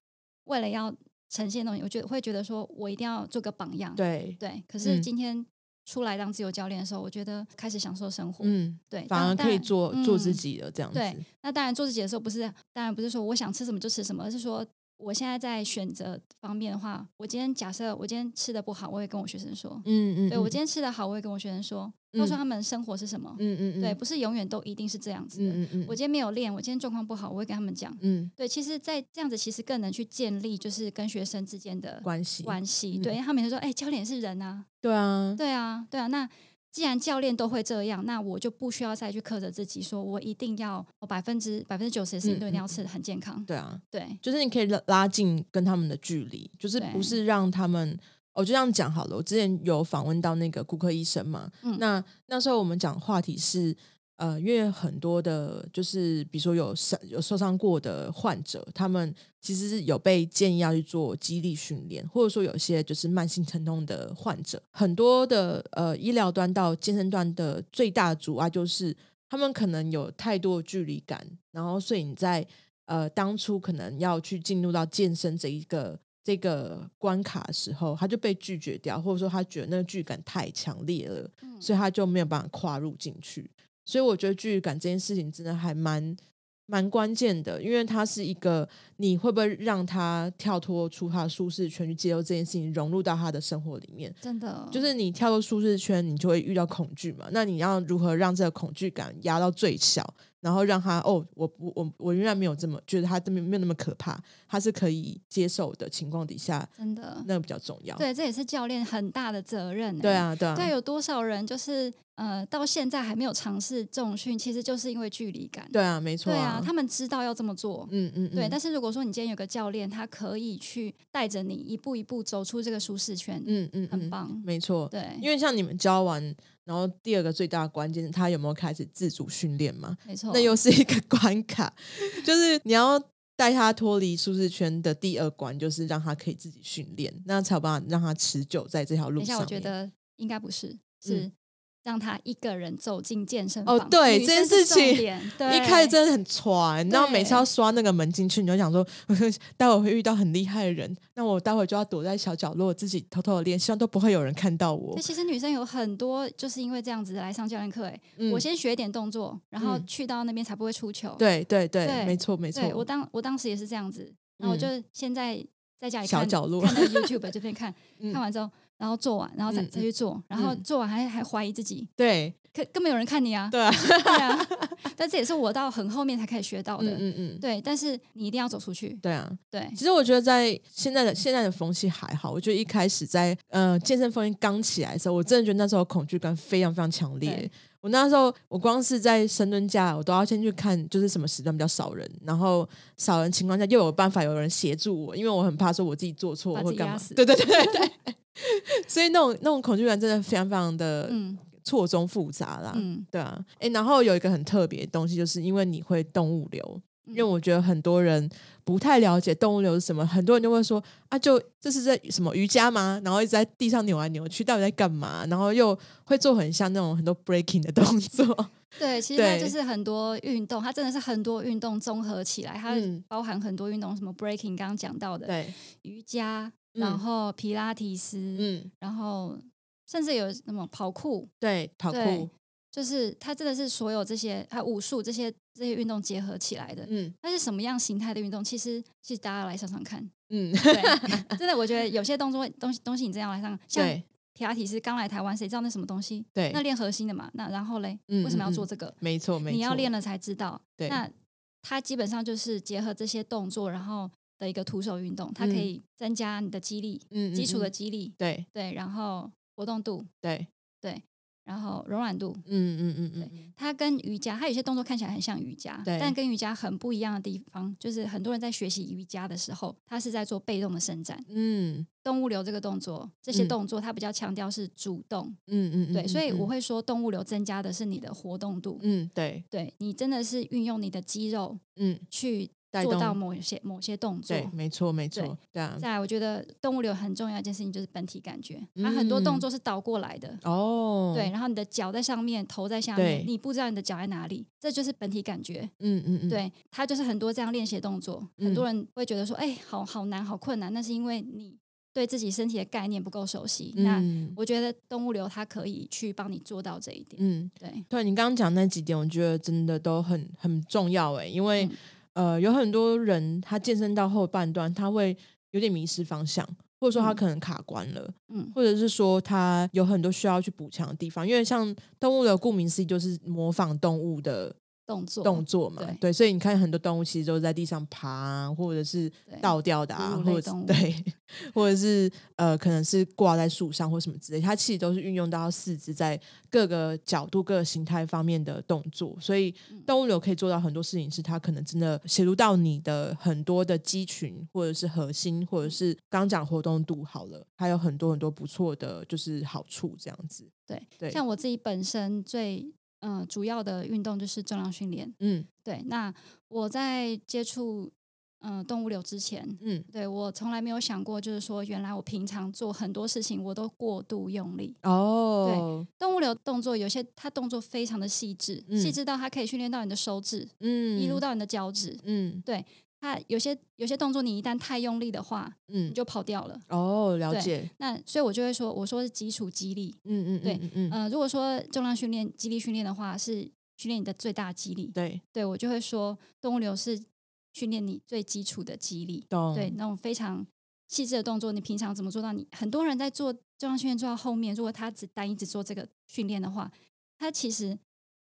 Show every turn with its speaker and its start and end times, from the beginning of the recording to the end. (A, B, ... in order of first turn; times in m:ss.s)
0:00.4-0:34.6 A
0:04.0-0:05.1 B
0:08.4-0:11.2 B
0:19.8-0:20.5 B
0:22.1-0:22.4 B
0:23.4-0:24.0 B
0:25.4-0:26.0 B
0:28.0-0:28.3 B
0:32.0-0:33.1 B
0:34.8-0:35.4 B
0:35.4-0:44.2 A
0:42.2-0:42.7 B
0:43.5-1:34.2 B
0:46.8-0:47.2 A
1:21.4-1:21.7 A
1:34.2-1:34.9 A
1:34.7-1:46.7 B
1:46.8-1:47.3 A
1:47.2-1:48.0 B
1:48.0-2:05.3 A
1:50.0-1:50.7 B
1:55.7-1:56.7 B
1:57.9-1:58.6 B
2:03.4-2:19.7 B
2:10.0-2:10.5 A
2:19.2-2:21.3 A
2:21.8-2:26.0 A
2:23.6-2:35.0 B
2:26.9-2:27.4 A
2:34.9-2:41.2 A
2:38.2-2:38.4 B
2:39.6-2:39.8 B
2:41.2-2:42.8 B
2:41.8-2:51.9 A
2:44.4-2:44.7 B
2:46.0-2:47.1 B
2:49.5-2:50.6 B
2:52.0-2:52.3 B
2:52.5-2:59.8 A
2:53.5-2:54.8 B
2:56.8-2:57.4 B
2:59.0-3:39.5 B
3:07.2-3:07.5 A
3:16.5-3:17.9 A
3:21.1-3:21.4 A
3:22.7-3:23.1 A
3:38.8-3:51.3 A
3:42.7-3:43.0 B
3:45.3-3:45.5 B
3:46.7-3:47.0 B
3:48.3-3:48.7 B
3:51.4-3:52.3 B
3:51.9-4:00.1 A
3:56.8-3:57.1 B
4:00.3-4:01.4 B
4:00.7-4:20.1 A
4:03.7-4:04.0 B
4:06.3-4:06.6 B
4:08.1-4:09.9 B
4:10.8-4:11.0 B
4:15.4-4:15.7 B
4:17.1-4:18.4 B
4:20.2-4:20.5 B
4:20.8-4:22.4 A
4:22.4-4:23.5 B
4:23.2-4:31.2 A
4:25.8-4:26.1 B
4:31.3-4:31.9 B
4:32.0-4:35.4 A
4:35.5-4:36.5 B
4:35.9-4:38.8 A
4:38.8-4:39.4 B
4:39.5-4:44.5 A
4:41.8-4:42.0 B
4:42.7-4:43.2 B
4:44.3-4:45.8 B
4:45.1-4:50.4 A
4:48.8-4:49.4 B
4:50.4-4:51.3 B
4:51.1-4:55.7 A
4:53.0-4:53.3 B
4:55.8-4:56.4 B
4:56.3-5:07.8 A
4:58.4-4:58.6 B
5:03.7-5:04.4 B
5:07.2-5:24.6 B
5:16.9-5:17.2 A
5:18.3-5:18.5 A
5:24.9-5:26.0 A
5:25.2-5:51.2 B
5:29.3-5:30.8 A
5:50.7-6:04.8 A
5:55.2-5:55.5 B
5:59.6-5:59.8 B
6:04.8-6:05.9 B
6:05.4-6:16.6 A
6:08.7-6:09.0 B
6:10.6-6:11.2 B
6:12.0-6:12.4 B
6:15.7-6:16.0 B
6:16.7-6:17.7 B
6:17.3-6:37.8 A
6:20.0-6:21.0 B
6:24.9-6:25.2 B
6:29.3-6:29.8 B